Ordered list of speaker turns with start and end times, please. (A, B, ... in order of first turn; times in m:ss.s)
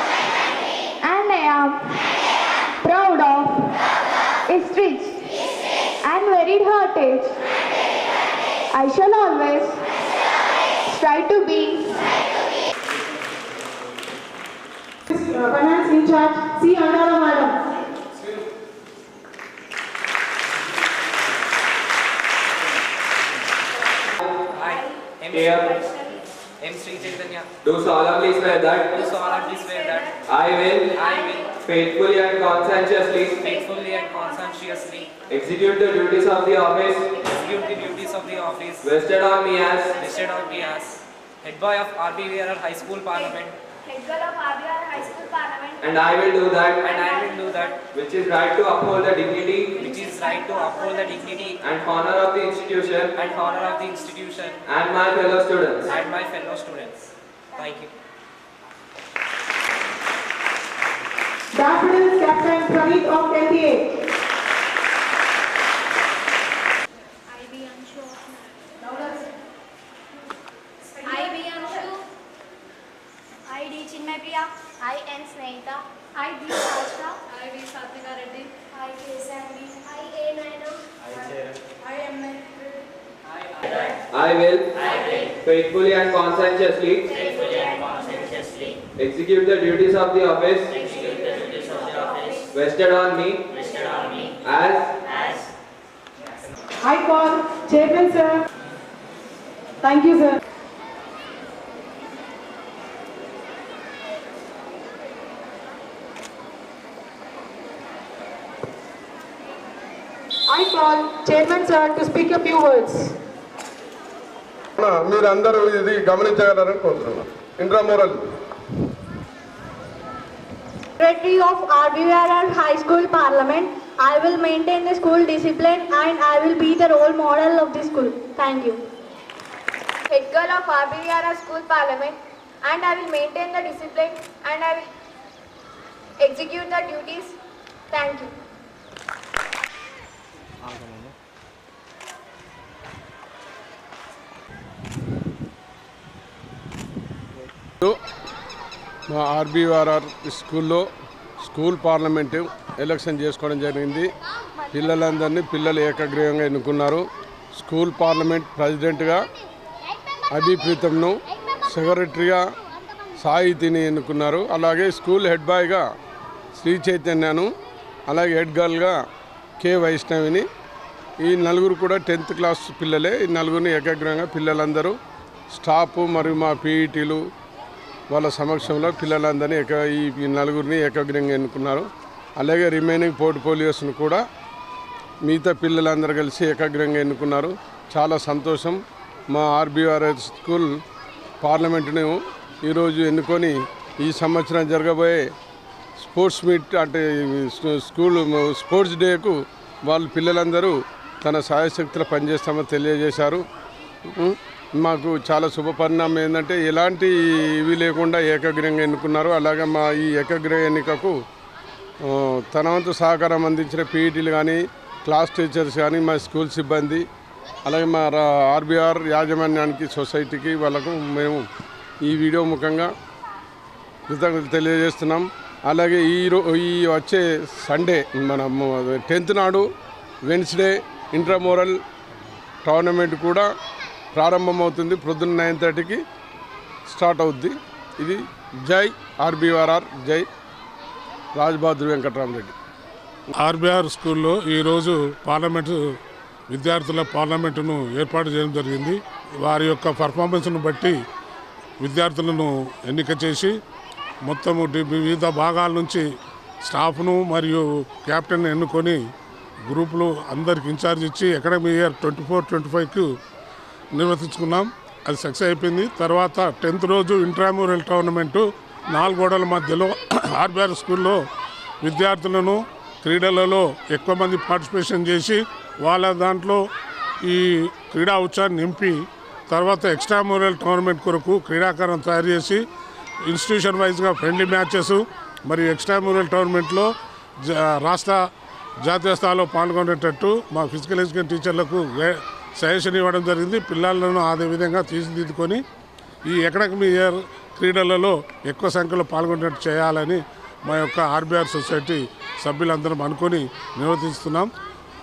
0:01.0-0:02.0 A
0:02.8-0:03.7 A
0:04.5-0:05.3 A
0:06.0-0:07.4 A
0:08.7-0:09.8 A
0:10.8-0:12.0 A
0:15.1-0:17.6 B
0:24.5-0:27.5 C
0:25.3-0:25.9 D
0:27.6-0:29.1 D
0:29.0-0:30.2 C
0:30.2-0:33.5 D
0:30.9-0:31.5 C
0:33.4-0:35.2 C
0:35.2-0:37.3 D
0:37.2-0:38.8 C
0:38.8-0:40.1 D
0:39.9-0:43.5 C
0:43.9-0:45.7 E
0:45.8-0:47.0 D
0:46.8-0:47.8 C
0:47.8-0:49.9 D
0:49.7-0:51.6 C
0:51.6-0:53.3 D
0:53.2-0:54.6 C
0:54.7-0:56.0 D
0:55.9-0:57.9 C
1:01.5-1:03.9 B
1:07.4-1:08.2 E
1:08.8-1:09.2 B
1:11.0-1:11.8 E
1:14.0-1:14.3 E
1:14.8-1:15.6 E
1:16.2-1:18.4 E
1:19.8-1:20.6 E
1:24.0-1:27.8 D
1:29.0-1:31.4 D
1:32.1-1:35.3 D
1:36.8-1:38.4 B
1:39.8-1:40.4 B
1:50.5-1:53.1 B
1:54.8-1:58.2 F
2:01.0-2:08.8 E
2:10.1-2:14.9 E
2:16.2-2:17.3 E
2:17.9-2:18.3 E
2:29.1-2:30.9 F
2:31.4-2:34.1 F
2:34.7-2:39.2 F
2:40.3-2:42.5 F
2:43.2-2:45.8 F
2:46.6-2:47.5 F
2:48.1-2:49.0 F
2:49.6-2:50.4 F
2:51.2-2:55.0 F
2:55.5-2:57.2 F
2:58.1-3:04.2 F
3:05.2-3:10.8 F
3:11.4-3:15.2 F
3:16.0-3:23.4 F
3:24.1-3:31.2 F
3:32.0-3:37.0 F
3:37.7-3:41.5 F
3:42.0-3:42.9 F
3:44.1-3:49.7 F
3:50.2-3:51.8 F
3:52.6-3:53.5 F
3:54.1-3:56.0 F
3:56.9-4:00.3 F
4:01.3-4:02.5 F
4:03.4-4:05.8 G
4:06.5-4:11.0 G
4:11.8-4:13.5 G
4:14.2-4:16.0 G
4:16.6-4:19.0 G
4:19.7-4:23.1 G
4:23.9-4:31.2 G
4:31.8-4:36.6 G
4:37.2-4:42.6 G
4:43.2-4:48.2 G
4:48.8-4:55.6 G
4:56.3-5:04.5 G